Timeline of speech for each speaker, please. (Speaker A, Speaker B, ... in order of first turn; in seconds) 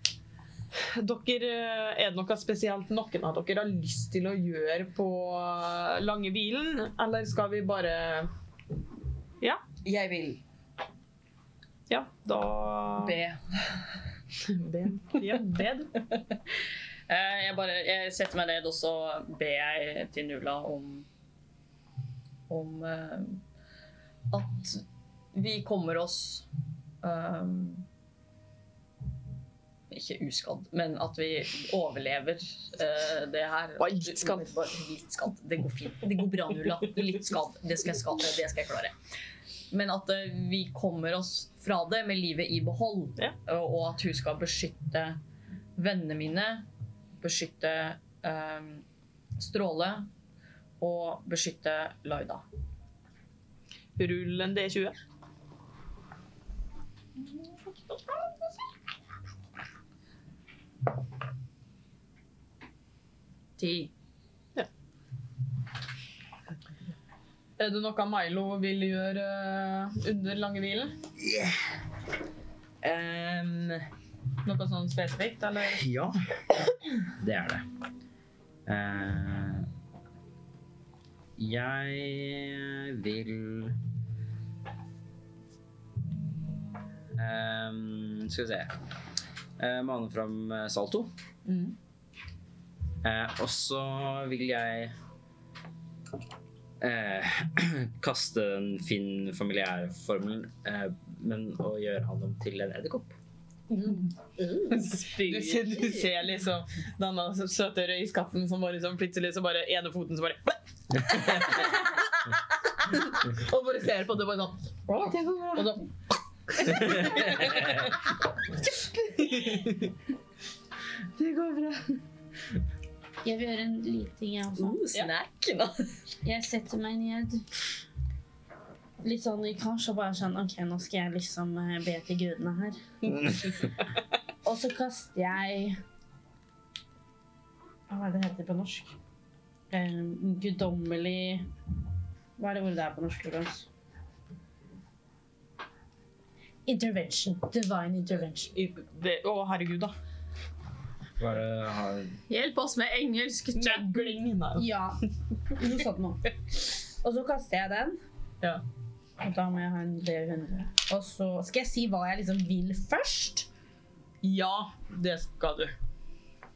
Speaker A: 0.7-8.3, 11.9-13.2, 14.4-16.0, 33.8-34.5, 54.0-55.0, 67.6-70.9, 74.4-75.8, 91.5-91.7, 104.7-111.7, 113.1-114.6, 115.5-115.8, 116.6-117.9, 119.3-119.6, 148.5-149.9, 153.5-154.8, 164.2-165.7
Speaker B: 9.8-10.4, 13.0-13.9, 17.1-21.1, 22.5-23.4, 24.3-26.5, 27.0-27.8, 29.9-39.0, 39.7-45.2, 45.8-46.7, 47.2-48.8, 49.4-50.1, 50.8-52.4, 63.6-63.9, 104.7-106.1, 114.9-115.8, 116.7-117.7, 118.7-119.8, 121.2-122.0, 124.5-125.9, 152.3-154.1
Speaker C: 71.2-71.5, 72.8-73.8, 75.7-76.1, 77.2-77.6, 78.7-79.7, 81.4-83.8, 87.2-88.7, 89.6-91.1, 93.0-94.9, 96.8-103.2, 116.8-117.7, 151.2-152.2
Speaker D: 103.7-104.9, 123.2-124.8, 126.2-127.5, 129.0-132.9, 134.4-135.8, 137.9-138.9, 139.7-141.5, 142.4-143.7, 146.7-148.5, 154.6-158.0, 159.2-163.5